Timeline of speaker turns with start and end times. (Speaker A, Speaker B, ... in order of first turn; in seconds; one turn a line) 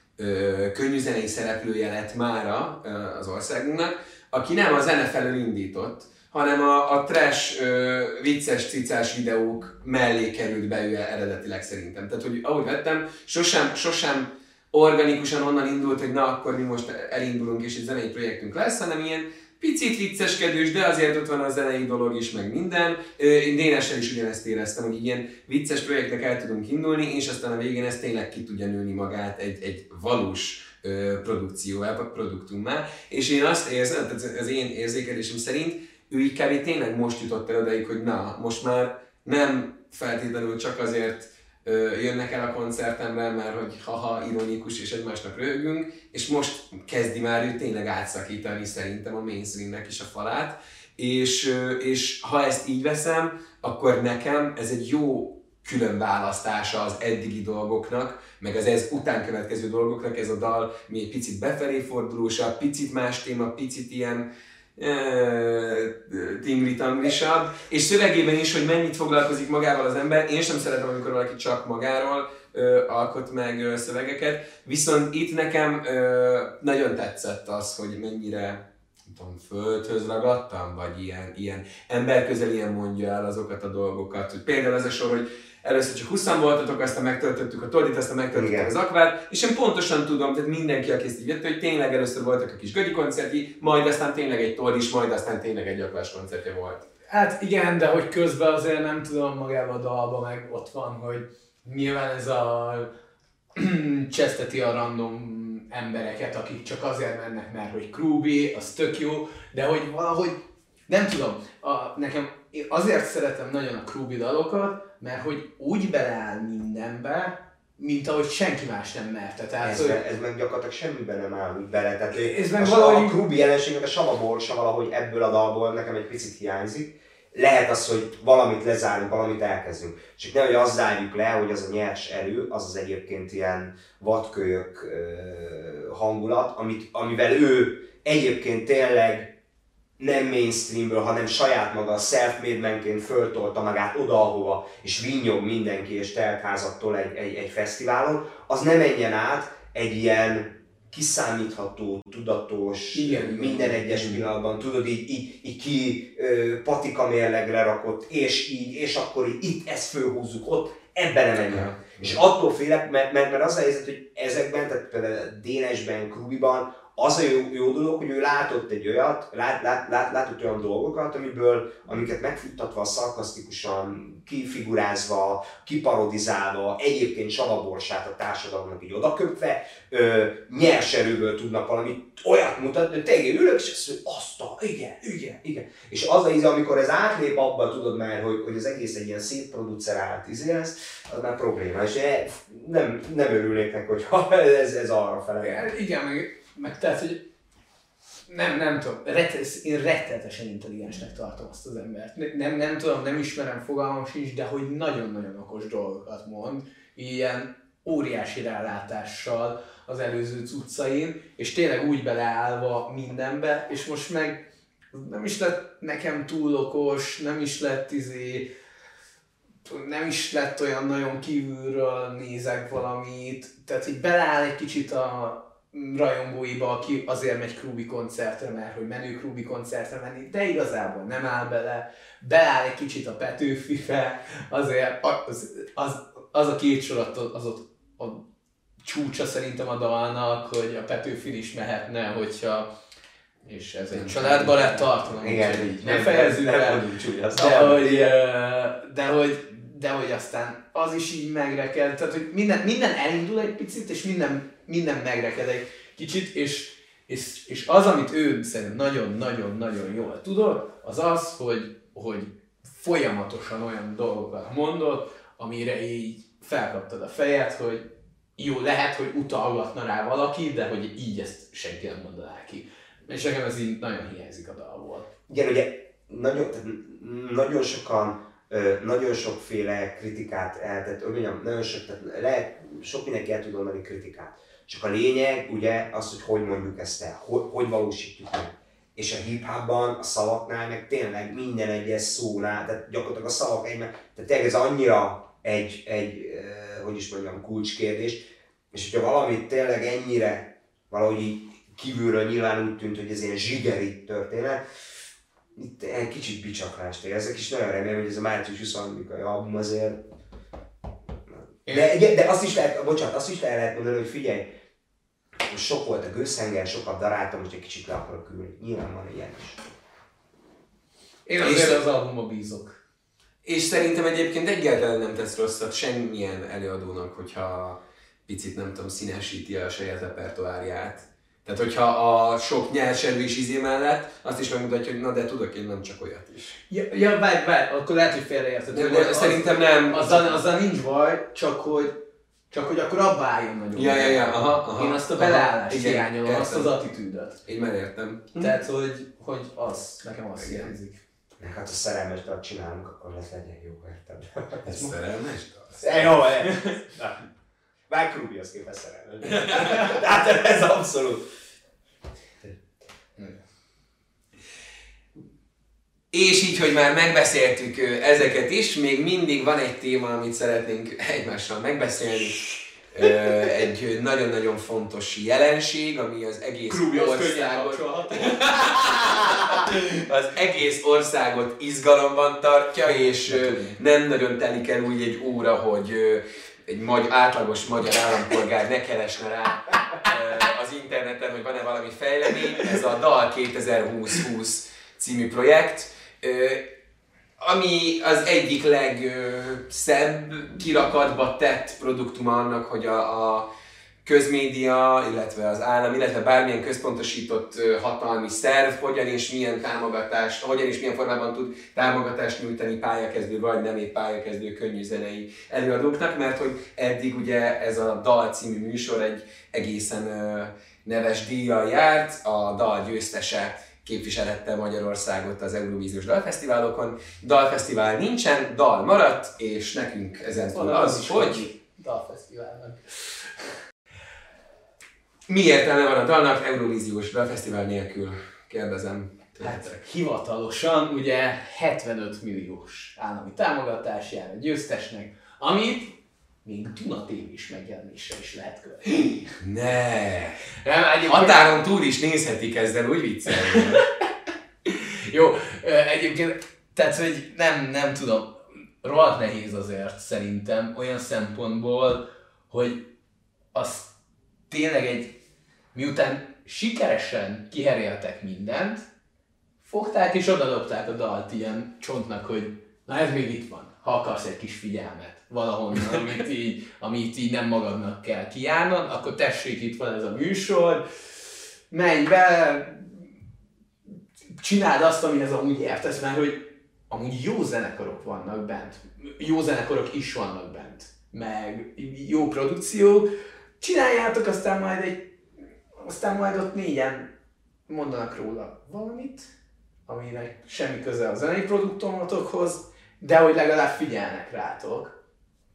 Speaker A: 0.2-96.8
Speaker B: 88.3-88.7
Speaker C: 97.1-102.9
Speaker C: 103.6-120.0
Speaker B: 119.6-139.3
Speaker C: 122.1-123.2
Speaker B: 140.0-195.7
Speaker C: 152.9-154.2
Speaker A: 161.5-162.1
Speaker C: 195.4-197.2
Speaker C: 198.3-218.5
Speaker C: 219.7-238.2
Speaker C: 238.8-242.7
Speaker C: 243.5-246.8
Speaker A: 243.9-245.0
Speaker B: 245.2-248.1
Speaker C: 247.3-275.1
Speaker B: 275.3-305.0
Speaker B: 305.6-310.0
Speaker B: 311.3-314.6
Speaker C: 311.7-311.9
Speaker B: 315.4-319.7
Speaker C: 321.3-322.8
Speaker A: 321.4-321.8
Speaker A: 323.4-336.6
Speaker C: 336.7-342.0
Speaker A: 338.7-340.4
Speaker C: 342.5-347.4
Speaker A: 343.8-346.7
Speaker A: 347.5-348.5
Speaker C: 348.4-351.0
Speaker B: 351.4-354.9
Speaker A: 354.6-355.8
Speaker C: 355.8-356.8
Speaker B: 355.8-357.2
Speaker B: 357.9-361.3
Speaker A: 359.5-359.8
Speaker C: 359.6-359.9
Speaker A: 366.1-396.6
Speaker C: 376.7-379.7
Speaker C: 382.9-383.8
Speaker A: 397.4-403.5
Speaker A: 404.0-431.4
Speaker C: 430.2-433.5
Speaker A: 435.3-439.8
Speaker C: 439.4-449.3
Speaker A: 449.4-450.4
Speaker C: 450.6-451.6
Speaker A: 451.1-453.8
Speaker C: 453.3-453.9
Speaker C: 454.7-462.9
Speaker C: 463.5-463.9
Speaker C: 464.5-465.1
Speaker C: 465.7-468.8
Speaker C: 469.6-480.8
Speaker C: 481.7-483.1
Speaker C: 484.4-493.1
Speaker C: 493.6-495.2
Speaker C: 495.8-497.1
Speaker C: 497.7-499.3
Speaker C: 499.9-504.9